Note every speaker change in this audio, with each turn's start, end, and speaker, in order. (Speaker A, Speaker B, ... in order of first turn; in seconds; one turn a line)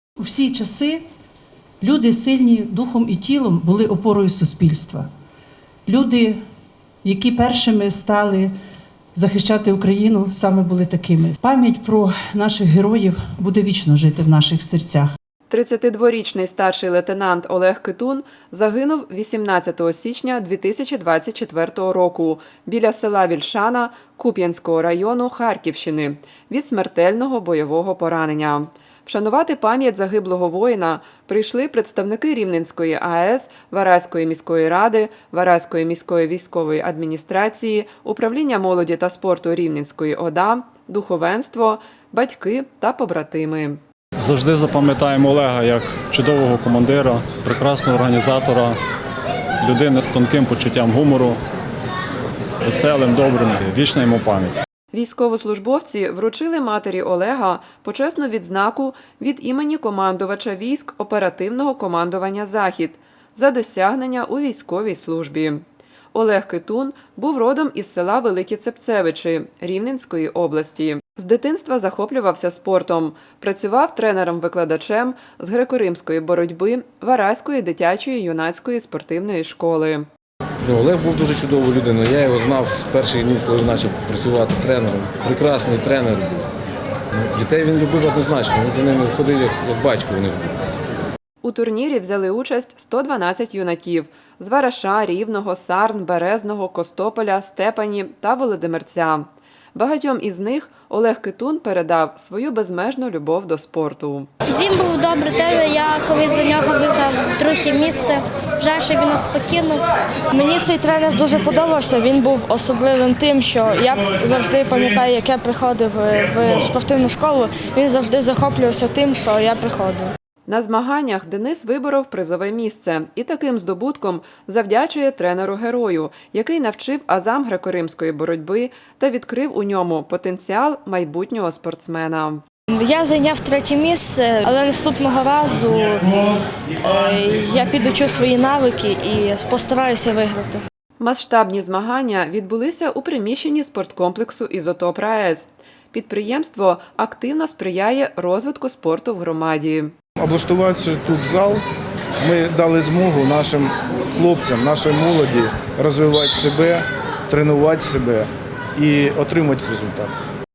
Speaker A: 0.2-1.0
Speaker A: 1.8-5.1
Speaker A: 5.9-6.4
Speaker A: 7.0-8.5
Speaker A: 9.1-15.1
Speaker B: 15.5-43.8
Speaker C: 44.2-48.8
Speaker C: 49.6-51.4
Speaker C: 52.6-54.6
Speaker B: 54.9-65.6
Speaker B: 66.1-80.1
Speaker D: 80.6-86.5
Speaker D: 87.1-90.5
Speaker B: 91.4-104.3
Speaker E: 104.5-109.9
Speaker F: 110.3-120.1
Speaker B: 120.5-132.4
Speaker F: 132.7-136.2
Speaker F: 136.8-140.6
Speaker B: 141.0-149.9
Speaker G: 150.2-151.6
Speaker G: 152.2-160.2